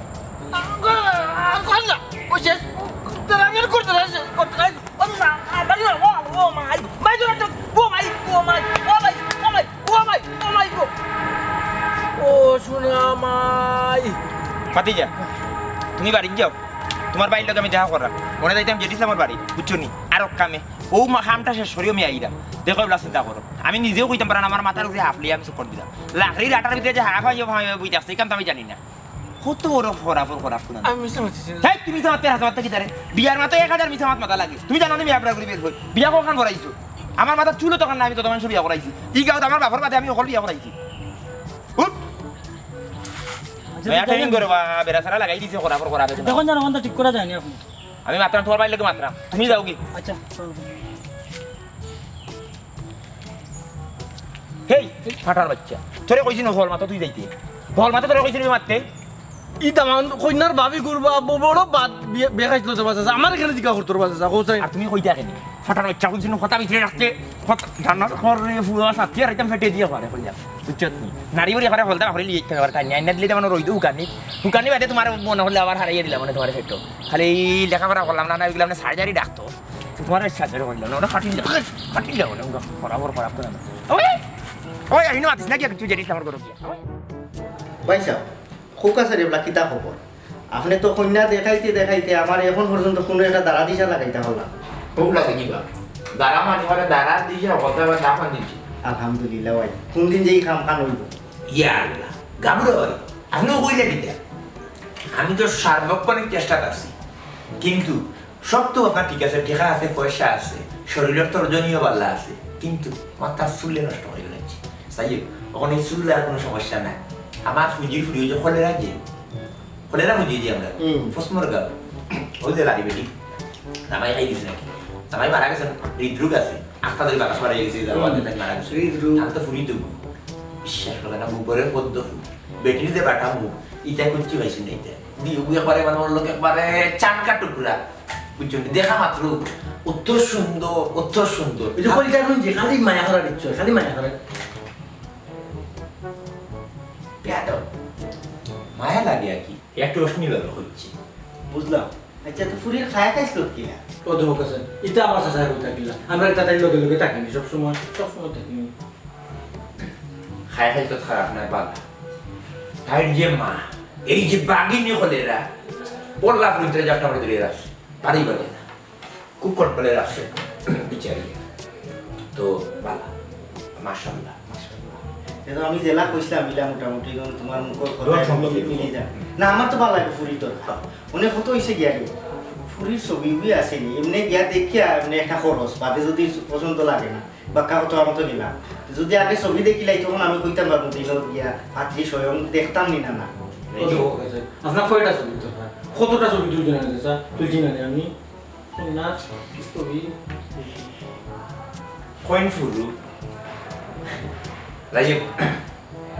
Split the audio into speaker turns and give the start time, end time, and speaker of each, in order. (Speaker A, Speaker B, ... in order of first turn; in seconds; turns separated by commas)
Speaker A: 0.5-10.9, Speaker A: 12.2-14.2, Speaker B: 14.7-15.1, Speaker B: 16.0-16.5, Speaker B: 17.1-28.8, Speaker B: 29.4-31.0, Speaker A: 30.8-31.7, Speaker B: 31.6-40.7, Speaker C: 43.8-44.5, Speaker B: 43.8-46.5, Speaker C: 46.1-47.6, Speaker B: 48.0-49.8, Speaker C: 49.3-50.6, Speaker B: 54.7-58.9, Speaker A: 59.6-64.7, Speaker B: 64.6-84.2, Speaker B: 84.9-86.8, Speaker D: 87.8-90.0, Speaker D: 90.5-94.5, Speaker B: 94.9-98.6, Speaker D: 98.8-101.1, Speaker B: 101.5-104.2, Speaker B: 105.1-106.9, Speaker B: 107.6-119.0, Speaker B: 119.9-123.1, Speaker A: 120.8-121.1, Speaker B: 123.9-130.0, Speaker A: 127.9-129.3, Speaker B: 130.6-137.8, Speaker B: 138.4-142.1, Speaker A: 141.8-144.2, Speaker B: 147.2-147.6, Speaker B: 148.7-150.9, Speaker D: 151.5-153.8, Speaker A: 154.0-158.7, Speaker B: 160.5-161.8, Speaker B: 162.8-165.4, Speaker B: 166.2-168.6, Speaker B: 169.4-171.4, Speaker B: 172.3-173.1, Speaker B: 173.8-175.0, Speaker D: 175.4-182.1, Speaker B: 178.0-179.3, Speaker D: 182.7-193.3, Speaker B: 193.7-194.1, Speaker A: 193.8-198.1, Speaker A: 198.7-200.9, Speaker B: 202.2-202.9, Speaker B: 204.9-205.6